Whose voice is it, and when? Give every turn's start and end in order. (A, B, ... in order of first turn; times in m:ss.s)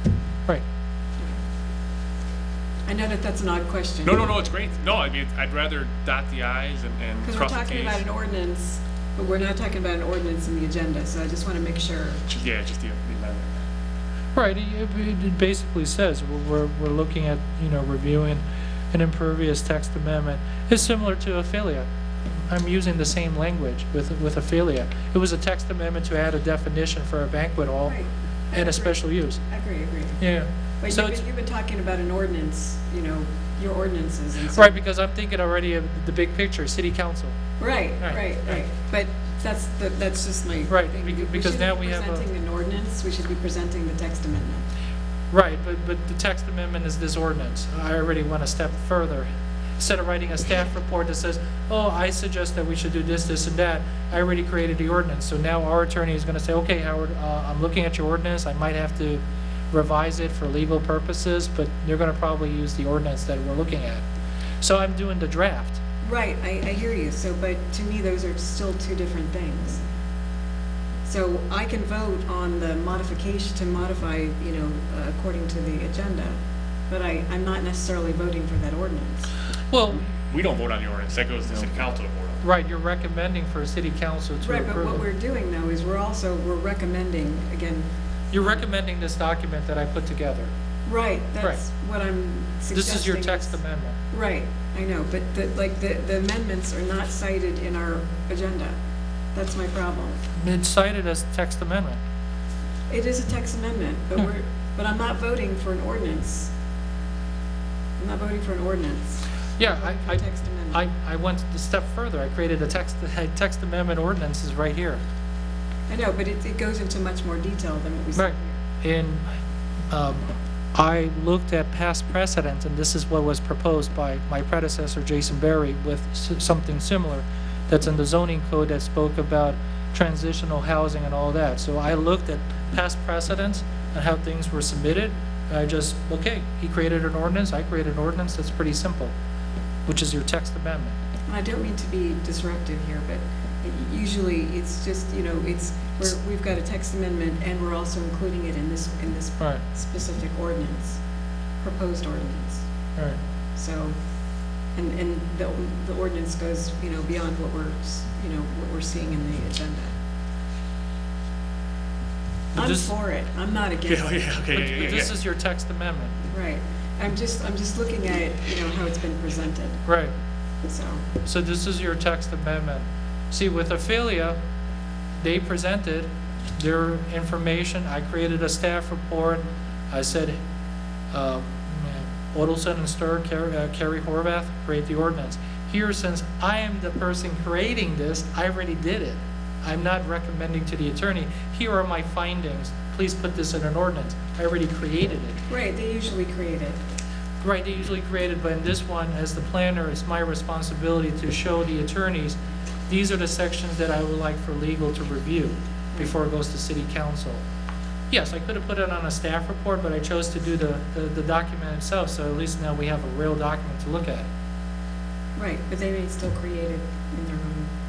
0:02.9-0:04.4 A
0:04.0-0:08.0 B
0:07.2-0:12.2 A
0:12.3-0:13.5 B
0:14.3-0:21.9 C
0:22.5-0:28.0 C
0:27.8-0:30.2 A
0:28.5-0:29.4 C
0:30.2-0:31.2 C
0:30.8-0:34.8 A
0:34.6-0:37.4 C
0:37.6-0:44.6 A
0:38.0-0:38.6 C
0:40.7-0:42.2 C
0:45.3-0:49.3 C
0:49.8-1:04.0 C
1:04.6-1:05.8 C
1:06.0-1:09.8 A
1:11.0-1:16.4 A
1:16.9-1:19.3 A
1:19.7-1:20.0 C
1:20.3-1:22.4 B
1:22.4-1:25.0 C
1:24.4-1:28.6 A
1:28.3-1:30.5 C
1:30.8-1:33.6 A
1:32.7-1:34.0 C
1:34.1-1:38.8 A
1:39.3-1:40.2 A
1:40.4-1:42.0 C
1:42.9-1:46.5 A
1:48.0-1:50.8 A
1:49.6-1:55.0 C
1:55.9-1:58.6 A
1:58.2-1:59.2 C
1:59.9-2:19.1 C
2:19.8-2:21.0 C
2:21.3-2:31.0 A
2:31.6-2:32.6 A
2:33.6-2:33.9 A
2:34.8-2:39.9 A
2:42.5-2:44.3 A
2:42.6-2:42.9 C
2:43.9-2:45.2 B
2:44.5-2:46.2 C
2:46.3-2:49.8 A
2:49.8-2:50.1 C
2:50.6-2:51.0 A
2:51.2-2:54.4 C
2:55.2-3:00.4 C
3:01.1-3:15.4 C
3:15.5-3:16.8 A
3:17.4-3:27.4 C
3:28.1-3:34.3 C
3:35.4-3:37.7 A